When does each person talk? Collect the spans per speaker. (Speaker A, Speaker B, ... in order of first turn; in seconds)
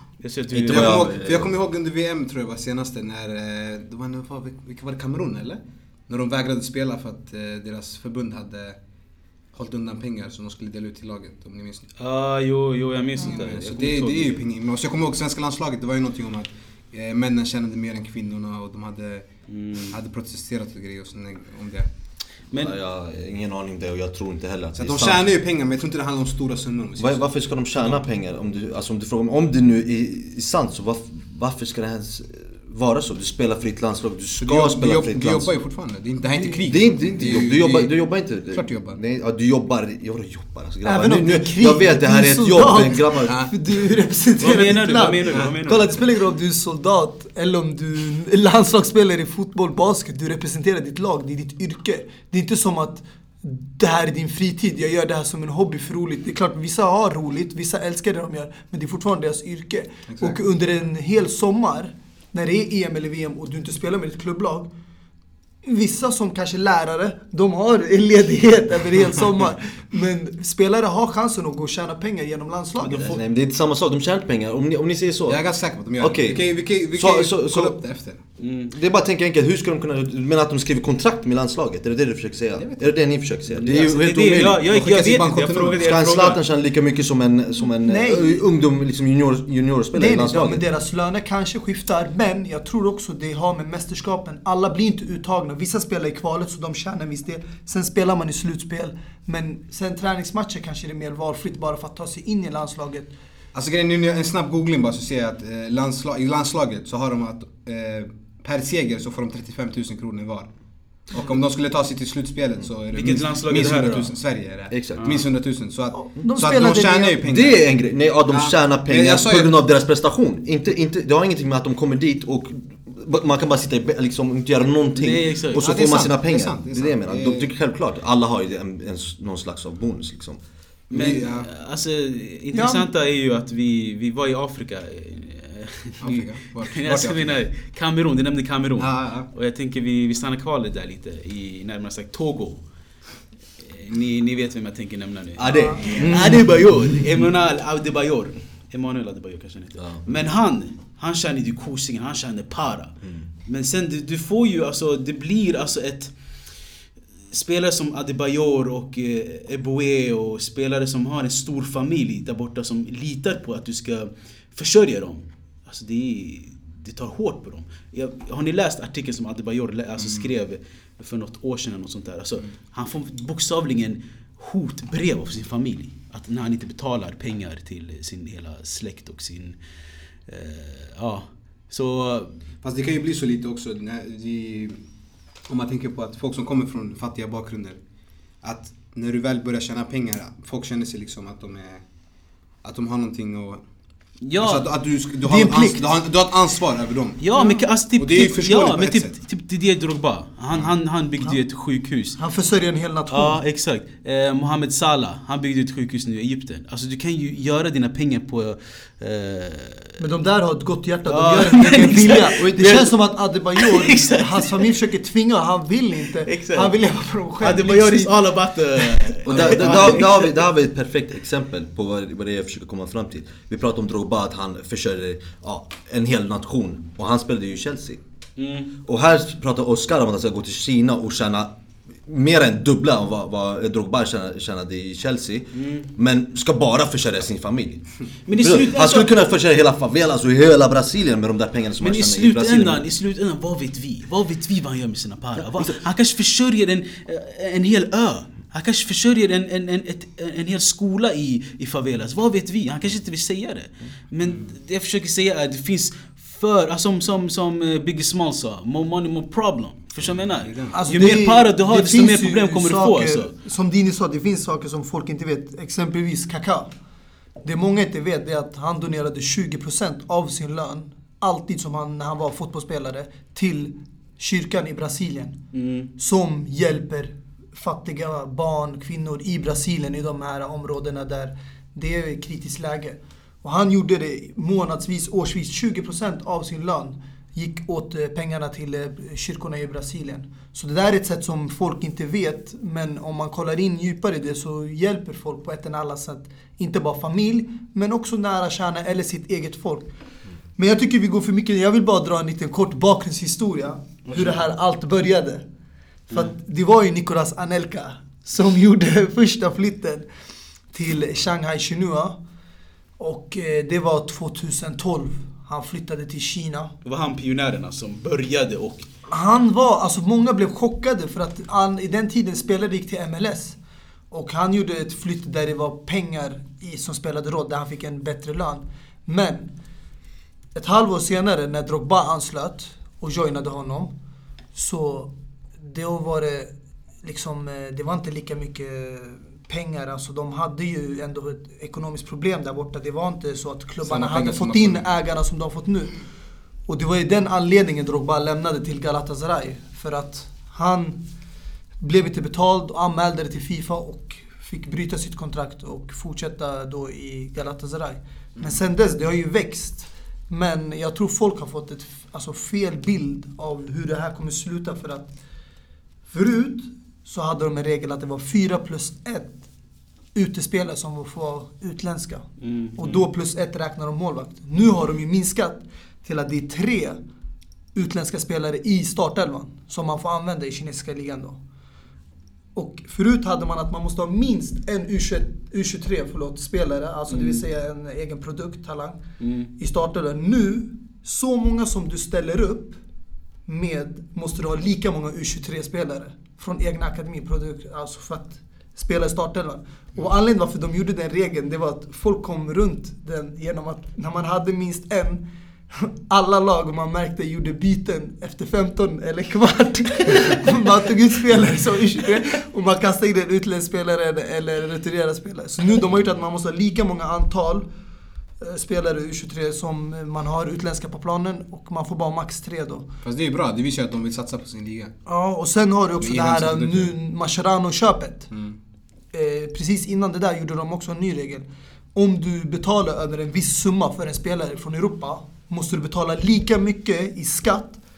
Speaker A: 0.2-1.1, 12.0-14.4, 19.5-20.0, 44.4-46.0, 72.8-73.2, 78.4-78.8, 83.6-86.4, 112.9-114.1, 125.0-125.7, 130.9-142.6, 143.6-156.1, 157.3-179.6, 180.3-182.3, 194.2-194.7, 197.2-202.2, 203.1-210.0, 211.1-213.0, 213.6-214.7, 216.3-216.7, 217.4-220.3, 228.4-228.7, 235.6-235.9, 238.3-239.2, 241.8-263.3, 275.5-275.9, 304.1-304.4, 316.9-318.9, 372.4-373.0, 387.1-387.4, 389.2-389.5
Speaker B: 0.5-1.5, 22.5-25.3, 27.0-35.5, 36.6-43.4, 72.9-77.8, 78.7-84.7, 85.8-90.6, 114.7-115.2, 117.2-130.4, 145.4-147.0, 149.8-150.2, 219.2-228.0, 228.8-231.6, 232.1-242.8, 245.4-245.8
Speaker C: 0.7-8.8, 9.5-11.9, 13.2-19.3, 19.9-21.9, 24.8-27.3, 34.4-38.0, 38.5-39.0, 43.3-43.5, 60.1-60.4, 75.3-78.2, 82.6-82.9, 84.7-85.8, 103.5-110.5, 111.1-117.7, 118.3-119.6, 125.5-127.5, 130.9-131.5, 136.0-137.4, 138.8-139.3, 170.0-170.3, 182.6-184.8, 185.5-187.8, 188.4-191.8, 192.6-193.6, 194.4-197.2, 198.0-199.2, 219.3-220.1, 254.2-254.5, 260.4-260.8, 343.8-344.8, 423.0-425.0, 426.0-426.9, 428.3-428.6
Speaker D: 40.8-64.7, 65.7-73.2, 87.8-88.4, 90.0-103.1, 115.9-117.2, 132.5-132.9, 145.5-145.9, 195.2-195.9, 197.3-197.7, 202.2-203.4, 210.0-218.2, 260.7-266.7, 267.4-275.4, 276.0-299.9, 300.6-305.4, 306.1-310.1, 310.7-312.2, 313.0-316.7, 319.1-323.6, 324.1-329.5, 330.5-333.9, 334.6-336.5, 337.0-345.9, 346.7-351.0, 351.8-365.1, 366.1-369.4, 370.1-377.0, 377.8-381.4, 382.6-389.0, 389.6-392.8, 393.5-417.7, 418.4-422.9, 425.1-428.3, 429.1-437.8